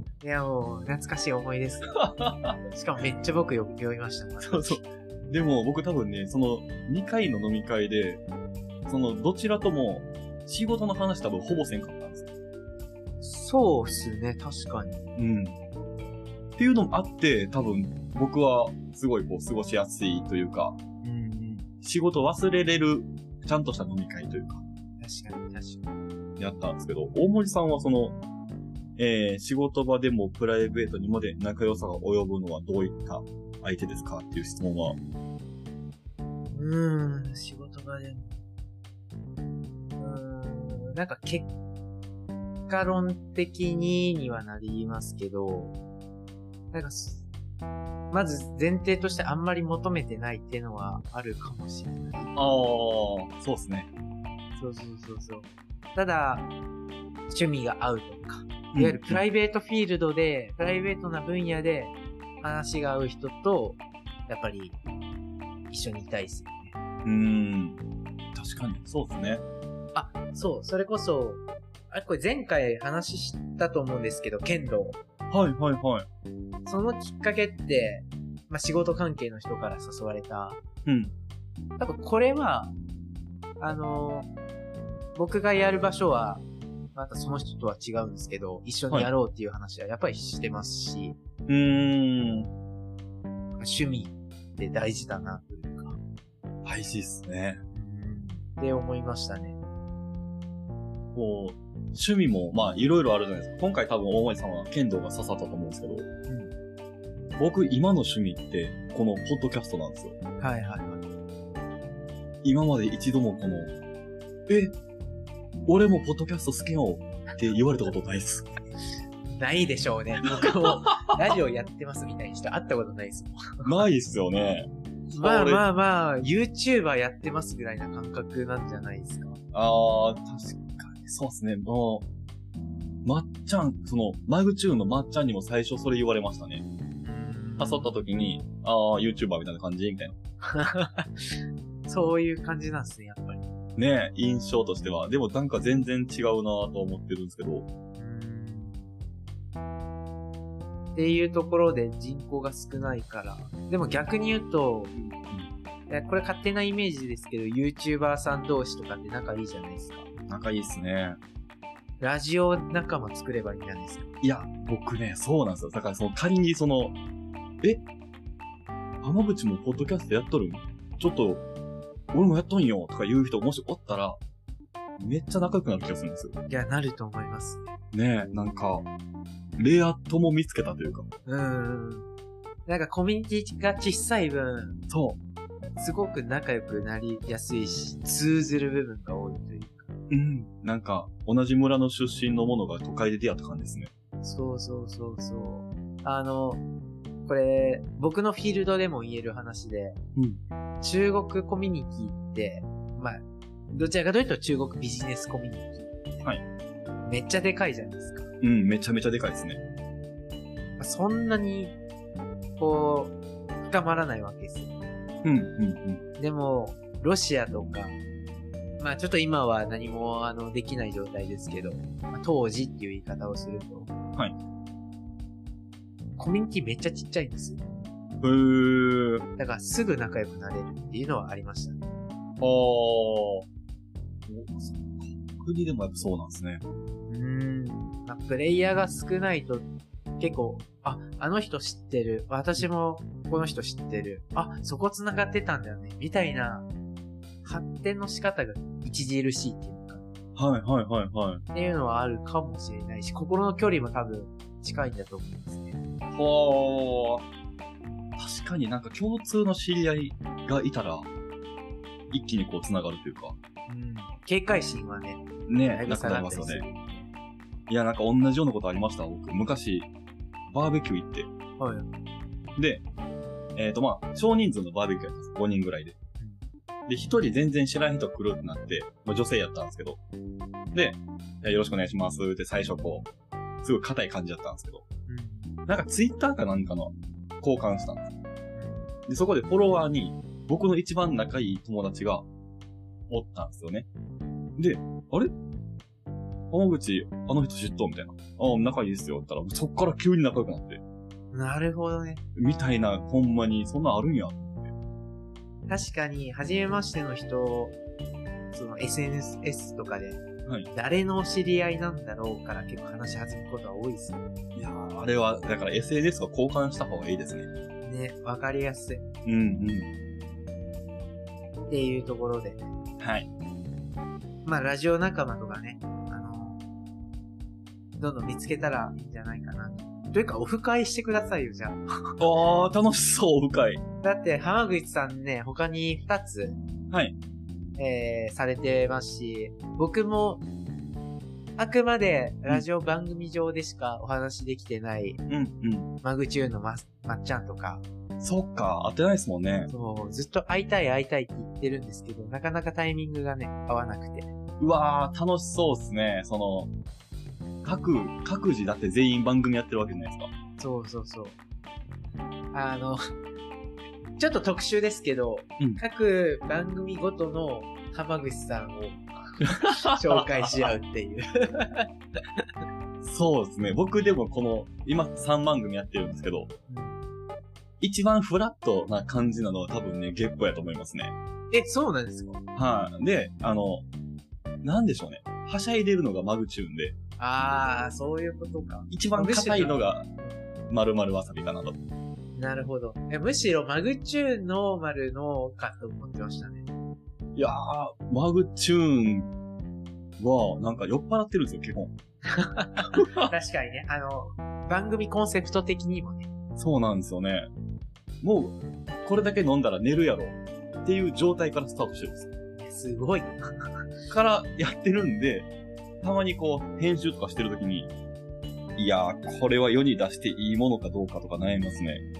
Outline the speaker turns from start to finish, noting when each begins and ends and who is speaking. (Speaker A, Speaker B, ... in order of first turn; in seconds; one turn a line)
Speaker A: 0.2-2.0
Speaker B: 1.9-2.6
Speaker A: 2.7-4.8
Speaker B: 4.4-8.2
Speaker B: 8.8-12.3
Speaker A: 13.2-15.1
Speaker B: 15.2-15.6
Speaker B: 16.6-20.8
Speaker A: 21.0-21.7
Speaker B: 21.8-24.6
Speaker A: 25.0-25.9
Speaker B: 26.4-28.1
Speaker B: 29.0-35.0
Speaker A: 36.5-38.4
Speaker A: 40.0-41.5
Speaker A: 42.7-45.7
Speaker A: 46.7-47.2
Speaker A: 48.1-52.3
Speaker B: 52.3-53.9
Speaker A: 54.6-56.5
Speaker A: 57.3-64.8
Speaker B: 58.7-59.2
Speaker A: 65.7-66.8
Speaker B: 67.0-67.8
Speaker B: 68.3-69.4
Speaker A: 69.9-75.0
Speaker B: 75.3-76.0
Speaker A: 76.7-80.6
Speaker B: 80.8-81.1
Speaker A: 81.8-82.7
Speaker A: 83.6-84.3
Speaker A: 85.1-91.2
Speaker B: 91.5-92.5
Speaker A: 93.6-96.0
Speaker B: 96.6-97.6
Speaker A: 97.7-99.6
Speaker B: 101.1-106.1
Speaker A: 106.3-106.5
Speaker B: 107.4-110.1
Speaker A: 110.4-111.0
Speaker B: 112.4-113.7
Speaker B: 114.5-114.7
Speaker B: 115.7-118.5
Speaker A: 119.3-123.8
Speaker B: 120.3-121.0
Speaker B: 123.6-125.6
Speaker A: 125.1-129.4
Speaker B: 129.5-132.0
Speaker B: 133.0-136.6
Speaker A: 137.0-138.0
Speaker B: 137.6-140.1
Speaker A: 140.4-141.3
Speaker A: 141.9-143.5
Speaker B: 143.8-147.7
Speaker A: 148.0-148.9
Speaker A: 150.9-154.9
Speaker B: 154.9-155.5
Speaker A: 155.9-160.1
Speaker B: 160.3-161.2
Speaker A: 162.0-164.1
Speaker B: 164.2-166.9
Speaker B: 169.0-171.4
Speaker B: 172.1-174.2
Speaker B: 175.0-176.3
Speaker A: 176.5-177.7
Speaker B: 177.9-178.9
Speaker B: 179.6-181.1
Speaker A: 181.2-182.1
Speaker A: 182.7-184.8
Speaker B: 184.9-185.2
Speaker A: 185.8-189.9
Speaker B: 190.1-193.9
Speaker A: 194.2-196.6
Speaker A: 197.2-200.0
Speaker A: 200.8-203.2
Speaker A: 203.7-206.2
Speaker A: 207.0-208.3
Speaker B: 208.4-209.6
Speaker A: 210.8-211.8
Speaker A: 212.6-214.8
Speaker B: 215.2-216.0
Speaker A: 216.2-218.0
Speaker A: 218.8-223.9
Speaker A: 226.2-227.6
Speaker B: 228.2-229.2
Speaker A: 229.4-231.8
Speaker B: 232.4-233.4
Speaker B: 234.3-236.6
Speaker A: 237.1-239.7
Speaker A: 240.2-246.7
Speaker A: 247.4-250.1
Speaker B: 250.3-251.4
Speaker A: 251.5-255.8
Speaker B: 256.1-257.2
Speaker B: 258.2-261.1
Speaker B: 262.1-263.4
Speaker A: 263.7-267.1
Speaker B: 265.5-266.6
Speaker B: 267.7-269.9
Speaker B: 270.5-271.3
Speaker A: 271.6-271.9
Speaker B: 272.6-272.8
Speaker B: 273.6-275.9
Speaker B: 276.9-280.0
Speaker B: 280.7-283.1
Speaker B: 283.6-284.8
Speaker A: 285.1-285.5
Speaker B: 285.7-288.1
Speaker A: 288.5-288.9
Speaker B: 289.1-292.2
Speaker B: 293.1-293.9
Speaker B: 294.6-295.3
Speaker B: 296.5-300.8
Speaker A: 301.3-302.2
Speaker B: 302.3-304.7
Speaker A: 305.7-307.8
Speaker A: 308.5-314.2
Speaker B: 314.5-317.5
Speaker A: 317.8-319.0
Speaker B: 319.2-319.9
Speaker A: 321.7-322.6
Speaker B: 323.0-323.3
Speaker A: 324.4-326.6
Speaker A: 328.0-332.2
Speaker B: 332.2-333.8
Speaker A: 334.0-336.6
Speaker B: 336.9-337.1
Speaker A: 337.8-340.4
Speaker A: 341.6-345.2
Speaker B: 345.3-345.9
Speaker A: 346.0-347.8
Speaker B: 348.2-349.7
Speaker A: 349.7-354.3
Speaker B: 354.6-356.7
Speaker B: 357.6-360.3
Speaker A: 360.6-361.4
Speaker A: 362.5-363.0
Speaker A: 364.2-372.4
Speaker B: 369.4-370.5
Speaker B: 373.0-376.5
Speaker A: 376.7-377.0
Speaker B: 377.8-381.1
Speaker A: 381.5-382.4
Speaker B: 382.5-383.8
Speaker B: 384.6-386.9
Speaker A: 387.2-390.4
Speaker B: 388.9-390.0
Speaker B: 390.7-391.8
Speaker A: 392.4-396.6
Speaker B: 397.3-399.3
Speaker B: 400.2-401.9
Speaker A: 402.3-406.3
Speaker B: 402.9-403.3
Speaker B: 406.6-407.5
Speaker B: 408.2-412.3
Speaker A: 412.6-413.4
Speaker B: 414.1-415.5
Speaker B: 416.0-417.9
Speaker B: 418.8-422.0